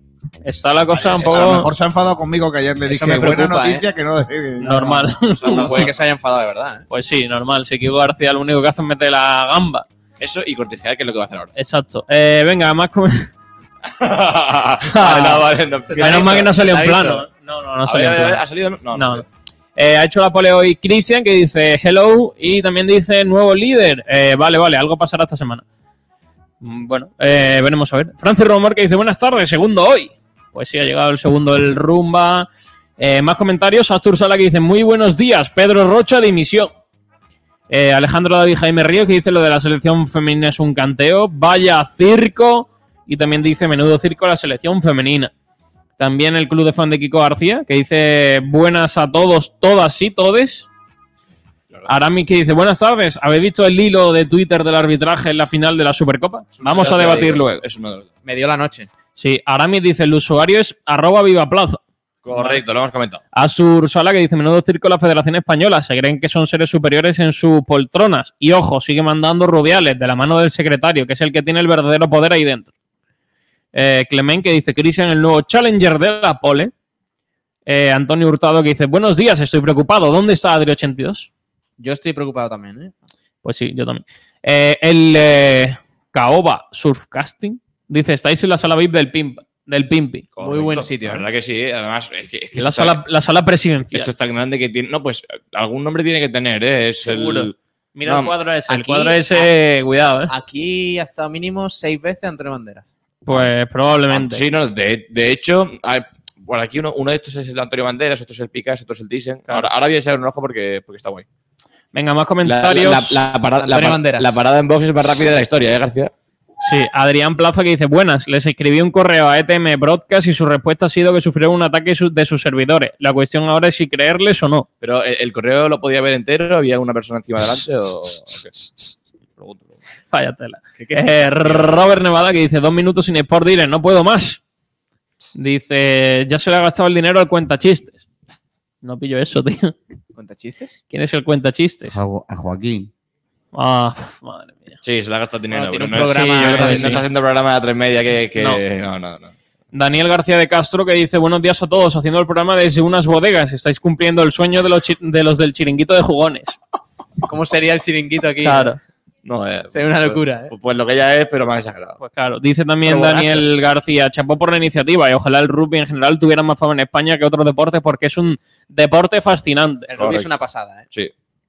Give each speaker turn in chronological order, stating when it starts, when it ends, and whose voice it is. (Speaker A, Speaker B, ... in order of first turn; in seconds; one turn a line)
Speaker A: 0.4-1.7
Speaker B: 0.9-1.7
Speaker C: 1.2-5.0
Speaker D: 2.9-3.9
Speaker A: 4.6-5.9
Speaker D: 5.4-6.8
Speaker B: 5.5-5.9
Speaker A: 6.9-9.9
Speaker B: 10.2-11.5
Speaker A: 11.6-13.3
Speaker B: 13.8-16.6
Speaker A: 14.9-15.5
Speaker D: 15.9-17.3
Speaker A: 16.0-18.4
Speaker B: 17.8-19.3
Speaker A: 18.9-19.2
Speaker A: 19.8-25.6
Speaker A: 26.6-36.7
Speaker A: 37.7-45.3
Speaker A: 46.0-50.7
Speaker A: 51.9-57.6
Speaker B: 56.6-58.1
Speaker D: 58.2-58.9
Speaker A: 59.2-61.8
Speaker B: 62.2-63.2
Speaker A: 63.3-72.7
Speaker A: 73.7-76.7
Speaker A: 77.7-81.3
Speaker D: 81.8-83.0
Speaker A: 83.4-90.3
Speaker B: 90.4-93.0
Speaker D: 90.4-91.3
Speaker A: 92.6-94.1
Speaker B: 93.9-98.3
Speaker A: 97.0-100.3
Speaker D: 98.7-99.5
Speaker D: 100.3-102.9
Speaker A: 103.2-104.5
Speaker B: 104.1-111.3
Speaker A: 111.9-113.2
Speaker B: 112.4-116.1
Speaker D: 113.6-114.3
Speaker A: 116.6-124.7
Speaker B: 124.8-129.8
Speaker A: 130.1-134.4
Speaker D: 130.9-131.5
Speaker B: 131.4-131.8
Speaker A: 135.3-138.0
Speaker A: 138.8-139.8
Speaker D: 140.2-140.8
Speaker A: 140.9-141.9
Speaker C: 141.9-142.9
Speaker A: 143.5-144.8
Speaker B: 144.8-149.3
Speaker D: 145.5-147.0
Speaker A: 146.1-147.0
Speaker A: 149.7-156.6
Speaker D: 157.2-158.8
Speaker A: 158.4-158.8
Speaker B: 159.2-162.0
Speaker D: 159.7-160.5
Speaker A: 162.0-169.9
Speaker B: 162.8-163.5
Speaker D: 169.9-170.9
Speaker B: 170.0-170.3